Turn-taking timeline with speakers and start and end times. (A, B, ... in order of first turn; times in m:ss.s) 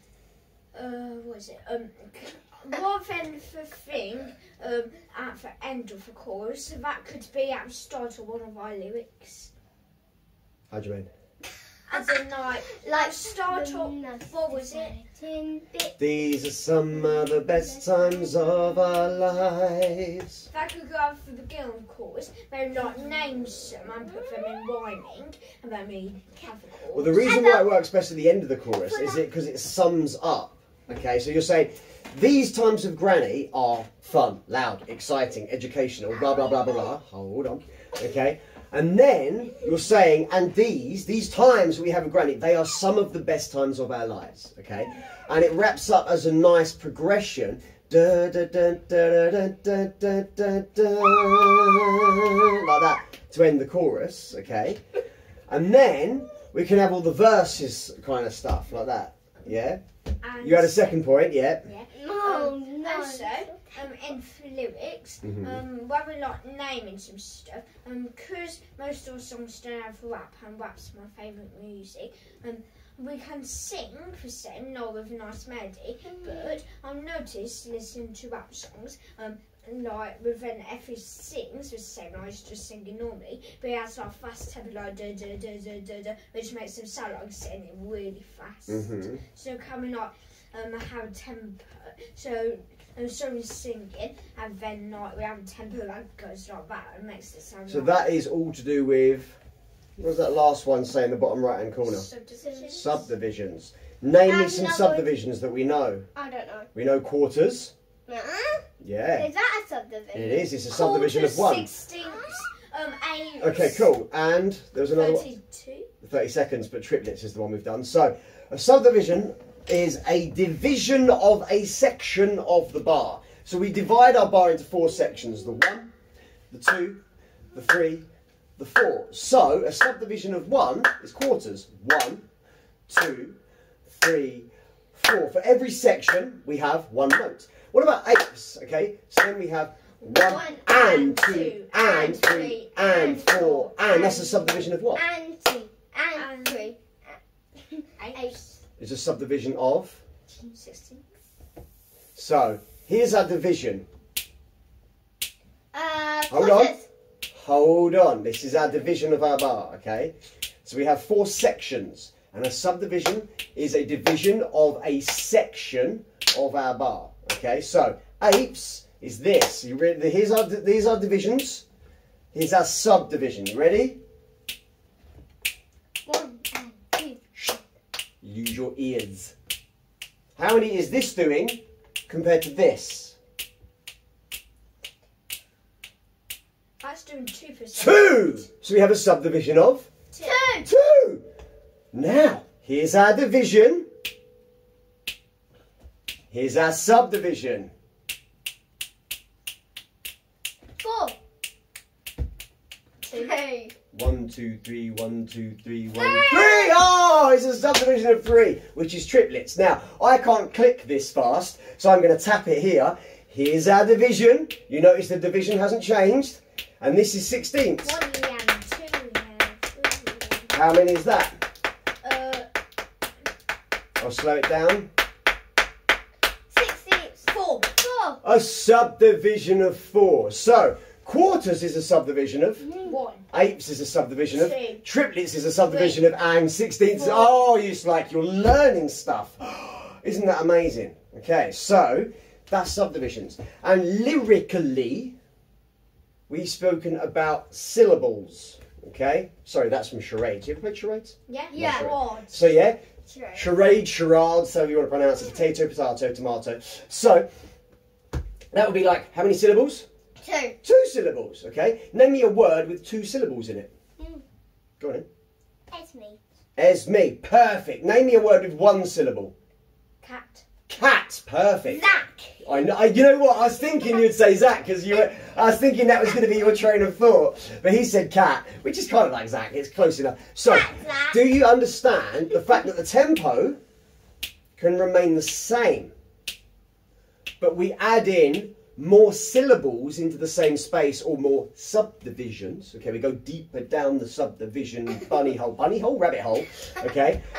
0:00.7-0:09.5 A
0:10.7-0:11.1 B
0:11.9-0:15.0 A
0:12.6-0:16.0 C
0:16.0-0:20.4 B
0:17.7-0:18.5 C
0:20.5-0:27.3 A
0:24.0-0:24.7 C
0:26.9-0:54.8 B
0:27.2-0:27.6 C
0:28.8-0:29.2 C
0:55.5-0:59.8 B
1:00.2-1:01.0 A
1:00.4-1:01.7 B
1:01.6-1:03.9 C
1:02.2-1:38.0 A
1:05.2-1:05.6 B
1:16.0-1:16.6 C
1:28.7-1:29.2 B
1:37.7-1:39.4 B
1:40.0-1:42.1 B
1:41.8-1:43.0 A
1:42.4-1:42.9 C
1:42.7-1:46.0 B
1:44.2-1:45.1 C
1:46.1-1:46.7 C
1:46.7-1:47.7 B
1:48.1-1:50.5 C
1:48.8-1:49.3 B
1:50.1-1:51.7 B
1:50.7-1:53.9 A
1:52.0-1:52.4 C
1:53.4-1:55.3 B
1:54.9-1:55.9 A
1:56.0-2:05.9 B
2:06.5-2:07.0 B
2:07.5-2:08.0 B
2:08.6-2:12.2 B
2:12.9-2:13.4 B
2:13.9-2:25.0 B
2:20.1-2:24.7 A
2:20.2-2:20.6 C
2:24.9-2:28.4 C
2:26.1-2:26.7 A
2:28.0-2:28.5 A
2:28.8-2:30.0 B
2:30.3-2:31.0 A
2:32.2-2:33.8 B
2:35.7-2:36.9 C
2:36.3-2:36.7 B
2:37.3-2:40.1 B
2:40.6-2:51.6 B
2:52.3-2:54.0 B
2:56.0-2:57.3 C
2:58.2-2:59.3 B
3:00.4-3:03.2 B
3:06.8-3:08.3 A
3:07.7-3:09.9 B
3:10.1-3:10.4 A
3:10.2-3:10.7 C
3:10.6-3:11.2 B
3:11.9-3:13.9 B
3:16.3-3:17.7 B
3:20.8-3:21.2 C
3:23.0-3:23.3 A
3:23.1-3:23.7 C
3:23.9-3:38.0 B
3:25.9-3:26.8 A
3:37.8-3:39.7 A
3:39.8-3:40.5 C
3:40.5-3:41.4 B
3:42.0-3:42.5 A
3:44.0-3:44.9 B
3:46.5-3:48.2 C
3:47.3-3:47.8 A
3:48.2-3:52.7 B
3:52.6-3:53.0 C
3:52.8-3:53.2 A
3:53.3-4:05.2 B
3:54.3-3:54.8 A
3:55.7-3:56.0 A
3:57.0-3:57.3 A
4:06.3-4:12.8 B
4:11.3-4:12.5 A
4:11.5-4:11.9 C
4:13.0-4:13.5 C
4:13.3-4:17.3 B
4:18.5-4:19.9 B
4:20.2-4:20.6 C
4:20.6-4:23.7 B
4:24.0-4:24.2 C
4:24.8-4:25.1 B
4:25.7-4:26.2 C
4:26.6-4:29.3 B
4:30.0-4:30.4 A
4:30.7-4:31.8 B
4:31.7-4:32.4 A
4:32.4-4:43.6 B
4:40.4-4:41.2 C
4:44.6-4:45.9 B
4:47.4-4:57.2 B